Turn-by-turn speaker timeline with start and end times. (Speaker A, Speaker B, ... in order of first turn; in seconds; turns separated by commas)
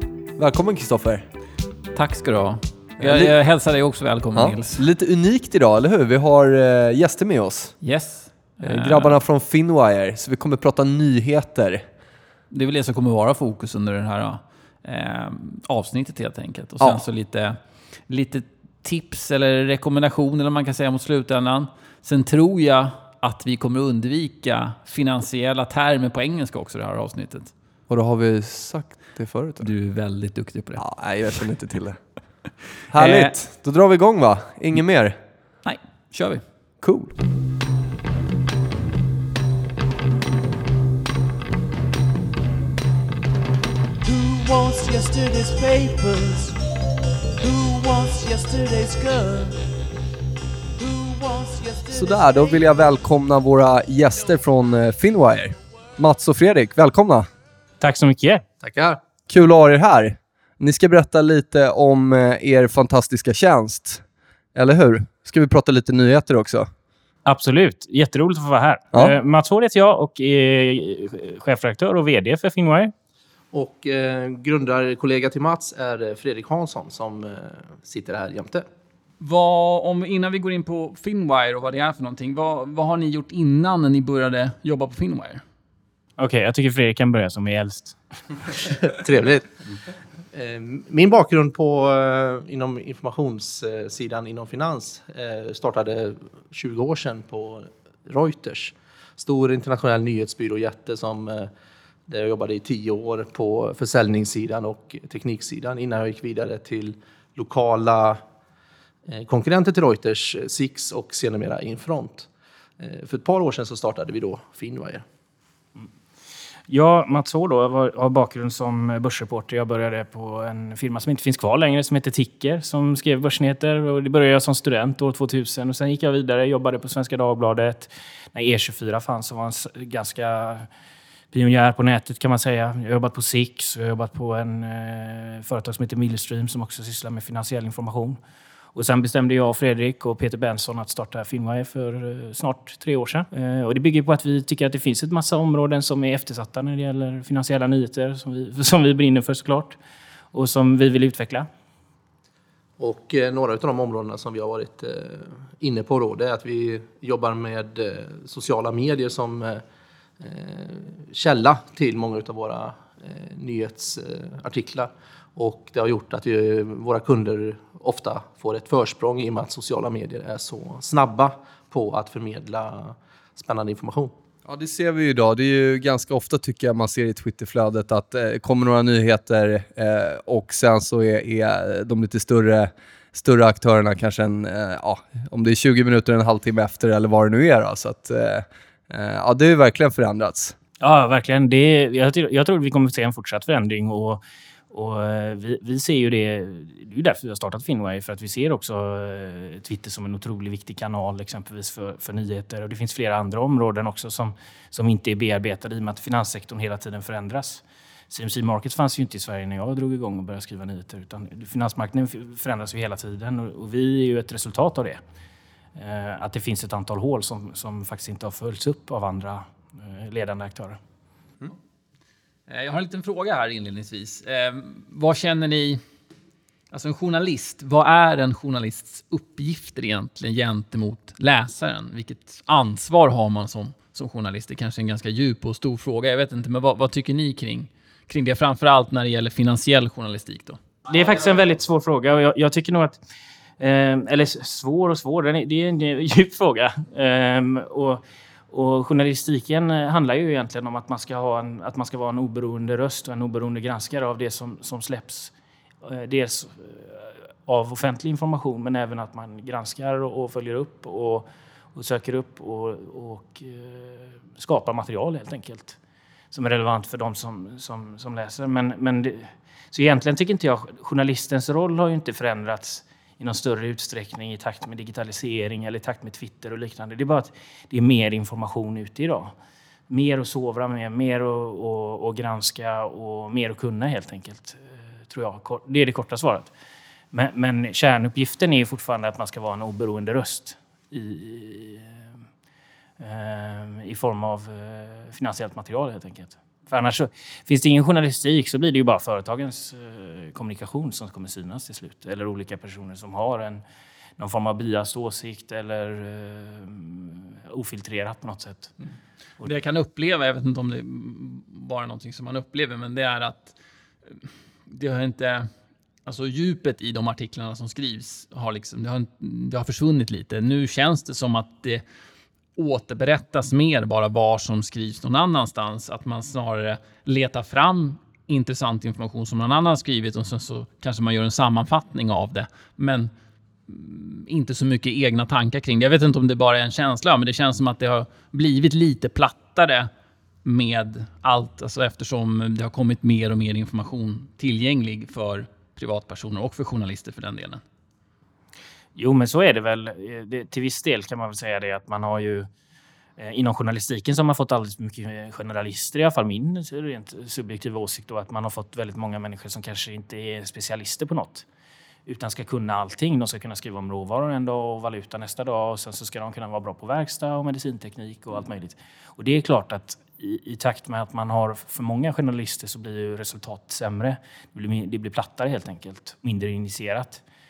Speaker A: 0.4-1.3, Speaker B: 1.9-4.8, Speaker A: 3.0-3.3, Speaker A: 4.3-7.8, Speaker B: 7.8-9.2, Speaker A: 8.6-11.8, Speaker B: 12.5-27.5, Speaker A: 27.9-29.7, Speaker B: 29.6-31.4, Speaker A: 30.8-32.1, Speaker A: 32.9-35.2, Speaker B: 32.9-33.4, Speaker B: 35.6-36.4, Speaker A: 36.8-37.1, Speaker C: 44.1-46.5, Speaker C: 47.4-49.5, Speaker C: 50.8-51.8, Speaker A: 51.9-57.3, Speaker D: 57.8-58.4, Speaker E: 58.6-59.0, Speaker A: 59.3-64.0, Speaker A: 64.5-66.7, Speaker D: 67.2-72.9, Speaker E: 73.5-78.7, Speaker B: 79.2-85.4, Speaker D: 86.2-88.6, Speaker E: 88.9-89.5, Speaker E: 90.3-101.5, Speaker E: 102.1-108.2, Speaker E: 109.1-112.3, Speaker E: 112.8-115.0, Speaker D: 116.7-130.7, Speaker D: 131.3-138.2, Speaker D: 138.7-149.8, Speaker D: 150.3-151.5, Speaker E: 152.8-159.6, Speaker E: 160.2-174.1, Speaker A: 174.4-190.6, Speaker D: 190.8-215.0, Speaker D: 215.8-220.8, Speaker B: 222.5-225.8, Speaker B: 226.7-240.6, Speaker D: 240.9-243.0, Speaker D: 243.6-265.8, Speaker D: 266.3-279.3, Speaker D: 279.9-286.5, Speaker D: 287.1-292.0, Speaker D: 293.0-303.6, Speaker D: 304.2-308.7, Speaker B: 309.4-315.5, Speaker B: 316.0-321.8, Speaker B: 322.6-333.1, Speaker B: 333.7-339.9, Speaker B: 340.4-347.6, Speaker D: 348.9-352.5, Speaker D: 353.2-361.4, Speaker D: 362.1-377.2